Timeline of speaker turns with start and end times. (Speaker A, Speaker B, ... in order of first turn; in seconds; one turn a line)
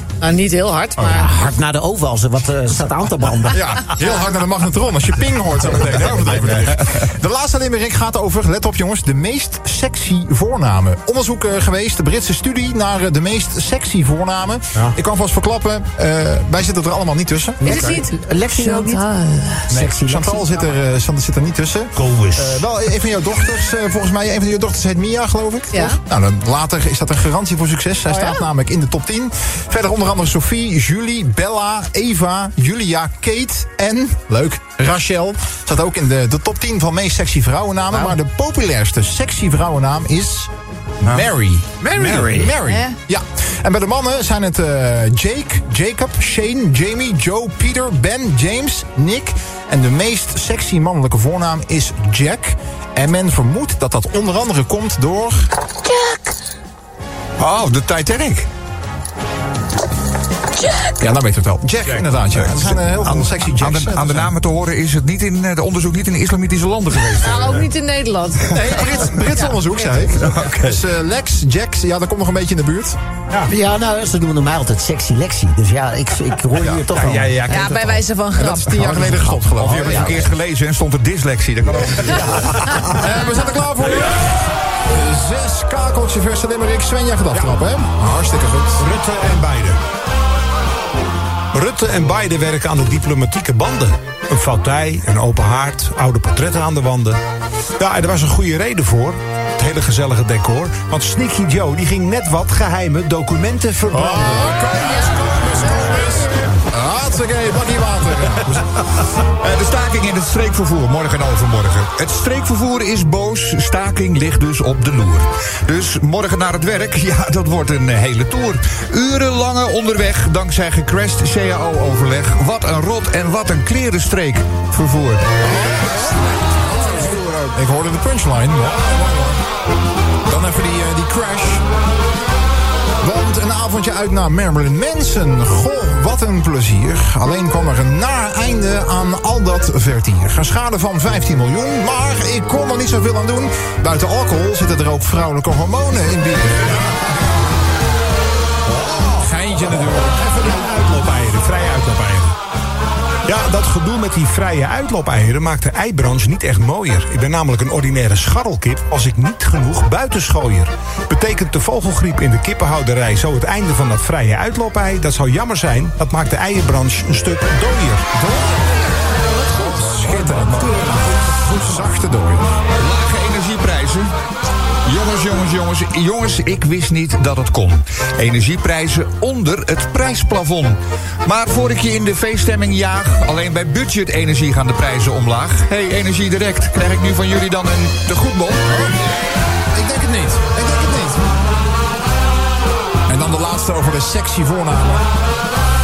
Speaker A: 0.2-1.3
Speaker B: 1.0-1.3
Speaker C: 1.0-3.7
Speaker B: 3.5-17.8
Speaker D: 5.6-6.8
Speaker C: 17.6-19.0
Speaker A: 17.6-19.7
Speaker D: 17.7-18.0
Speaker B: 19.7-40.5
Speaker C: 19.7-20.5
Speaker D: 21.9-22.6
Speaker A: 25.7-26.0
Speaker A: 28.1-28.5
Speaker B: 41.0-55.5
Speaker D: 41.9-42.5
Speaker C: 42.0-42.4
Speaker A: 42.6-43.0
Speaker E: 57.4-58.5
Speaker B: 61.0-64.3
Speaker E: 62.5-67.7
Speaker A: 67.2-69.6
Speaker B: 68.5-73.0
Speaker E: 70.2-70.8
Speaker C: 73.5-77.6
Speaker E: 76.6-77.2
Speaker D: 76.8-78.0
Speaker A: 77.5-79.2
Speaker B: 78.4-80.3
Speaker D: 78.9-79.7
Speaker E: 79.6-82.9
Speaker C: 79.7-80.3
Speaker D: 82.6-82.9
Speaker B: 82.9-88.9
Speaker D: 88.8-89.8
Speaker D: 91.5-97.2
Speaker D: 97.8-104.7
Speaker B: 103.9-108.6
Speaker A: 104.5-106.2
Speaker E: 109.2-125.6
Speaker B: 125.4-129.4
Speaker B: 130.3-131.6
Speaker B: 133.0-147.0
Speaker D: 148.7-152.4
Speaker B: 149.2-150.4
Speaker D: 153.3-168.6
Speaker B: 169.5-172.4
Speaker E: 169.6-171.1
Speaker E: 172.8-174.1
Speaker E: 174.8-188.9
Speaker B: 188.7-191.2
Speaker B: 193.1-195.1